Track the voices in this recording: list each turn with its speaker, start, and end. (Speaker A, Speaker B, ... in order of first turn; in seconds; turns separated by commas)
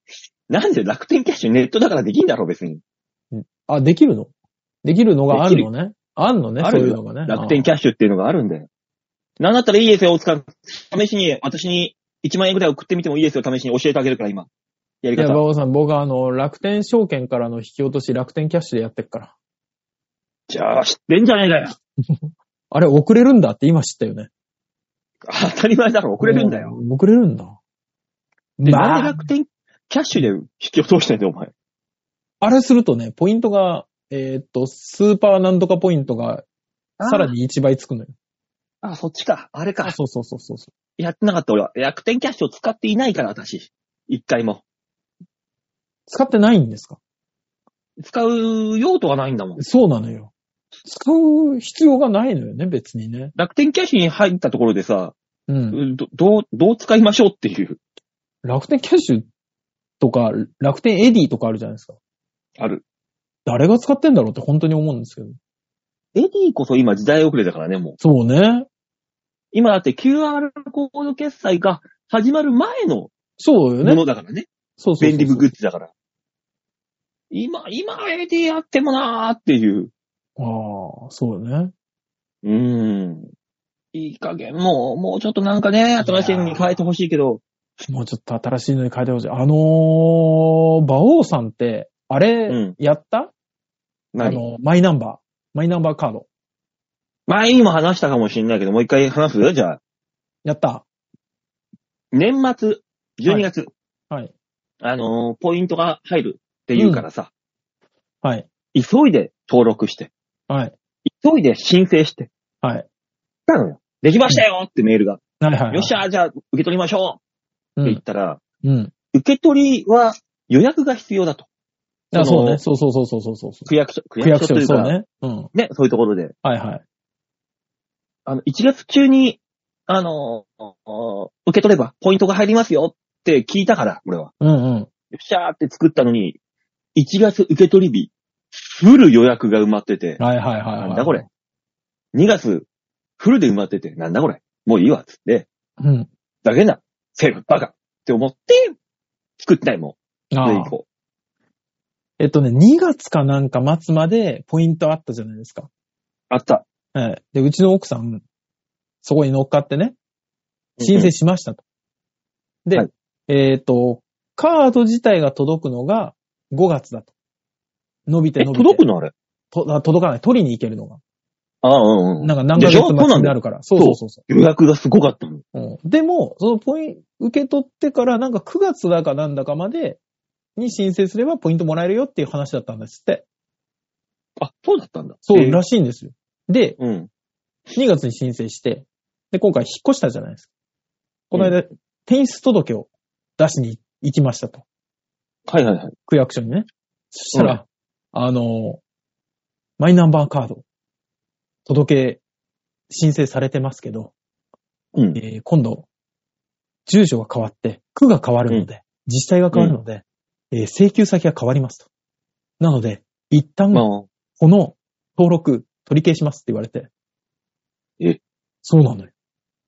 Speaker A: 0.5-2.8, Speaker B: 3.3-4.3, Speaker B: 4.8-7.7, Speaker A: 5.3-5.7, Speaker A: 6.6-8.7, Speaker A: 9.4-14.5, Speaker A: 15.0-15.4, Speaker B: 15.2-19.3, Speaker A: 20.5-21.7, Speaker B: 22.1-24.3, Speaker A: 25.2-26.7, Speaker B: 26.2-27.6, Speaker B: 28.6-29.3, Speaker A: 28.6-31.5, Speaker B: 32.4-36.4, Speaker A: 37.0-37.3, Speaker B: 37.0-38.1, Speaker A: 38.8-40.0, Speaker B: 39.8-40.7, Speaker A: 41.0-44.6, Speaker B: 46.1-47.0, Speaker A: 48.0-49.6, Speaker B: 49.6-50.3, Speaker B: 50.8-53.3, Speaker A: 53.4-55.1, Speaker B: 55.5-55.8, Speaker A: 55.7-57.8, Speaker B: 58.4-59.2, Speaker B: 60.0-62.0, Speaker A: 62.6-62.8, Speaker B: 63.5-65.4, Speaker A: 66.1-68.0, Speaker B: 68.0-68.7, Speaker A: 69.5-73.1, Speaker B: 73.4-74.0, Speaker A: 73.8-74.5, Speaker B: 74.8-75.5, Speaker A: 75.0-75.9, Speaker A: 77.3-79.9, Speaker B: 80.4-81.7, Speaker A: 82.4-83.3, Speaker A: 83.9-87.4, Speaker B: 86.0-86.7, Speaker B: 87.9-93.3, Speaker A: 92.5-92.7, Speaker A: 94.1-94.4, Speaker B: 94.2-96.3, Speaker A: 97.3-99.8, Speaker B: 100.4-100.8, Speaker A: 102.1-103.7, Speaker A: 104.8-107.3, Speaker B: 106.8-107.0, Speaker B: 108.2-108.5, Speaker A: 108.7-110.1, Speaker B: 110.5-110.7, Speaker A: 111.1-112.3, Speaker A: 113.5-117.2, Speaker B: 115.4-116.0, Speaker A: 117.8-118.4, Speaker B: 118.6-118.9, Speaker A: 119.1-121.5, Speaker B: 122.1-125.5, Speaker A: 122.1-122.6, Speaker A: 123.7-124.9, Speaker A: 125.5-126.3, Speaker B: 126.4-126.8, Speaker A: 128.2-134.3, Speaker B: 134.4-134.9, Speaker A: 135.1-136.4, Speaker A: 136.9-140.2, Speaker B: 140.2-141.2, Speaker A: 140.8-141.2, Speaker A: 142.1-142.7, Speaker A: 143.2-145.5, Speaker B: 145.8-146.1, Speaker A: 146.4-148.7, Speaker A: 149.4-150.8, Speaker B: 150.3-150.7, Speaker B: 152.2-155.7, Speaker A: 156.3-156.6, Speaker B: 156.9-158.2, Speaker B: 159.0-159.9, Speaker A: 160.8-161.1, Speaker B: 160.8-161.6, Speaker B: 162.7-167.1, Speaker B: 168.1-168.8, Speaker A: 168.4-169.1, Speaker B: 169.5-171.0, Speaker A: 171.6-175.4, Speaker B: 172.2-174.2, Speaker B: 175.5-180.0, Speaker B: 180.6-183.2, Speaker A: 184.4-185.6, Speaker B: 185.2-186.8, Speaker A: 186.8-187.1, Speaker B: 187.7-190.5, Speaker B: 191.3-194.6, Speaker A: 195.5-195.9, Speaker B: 196.1-198.8, Speaker A: 197.3-197.6, Speaker B: 199.8-200.6, Speaker B: 201.7-202.2, Speaker B: 202.9-204.1, Speaker A: 204.9-205.2, Speaker B: 205.1-205.9, Speaker B: 206.8-211.9, Speaker B: 212.6-213.8, Speaker A: 213.7-214.1, Speaker B: 214.4-216.9, Speaker B: 218.6-219.1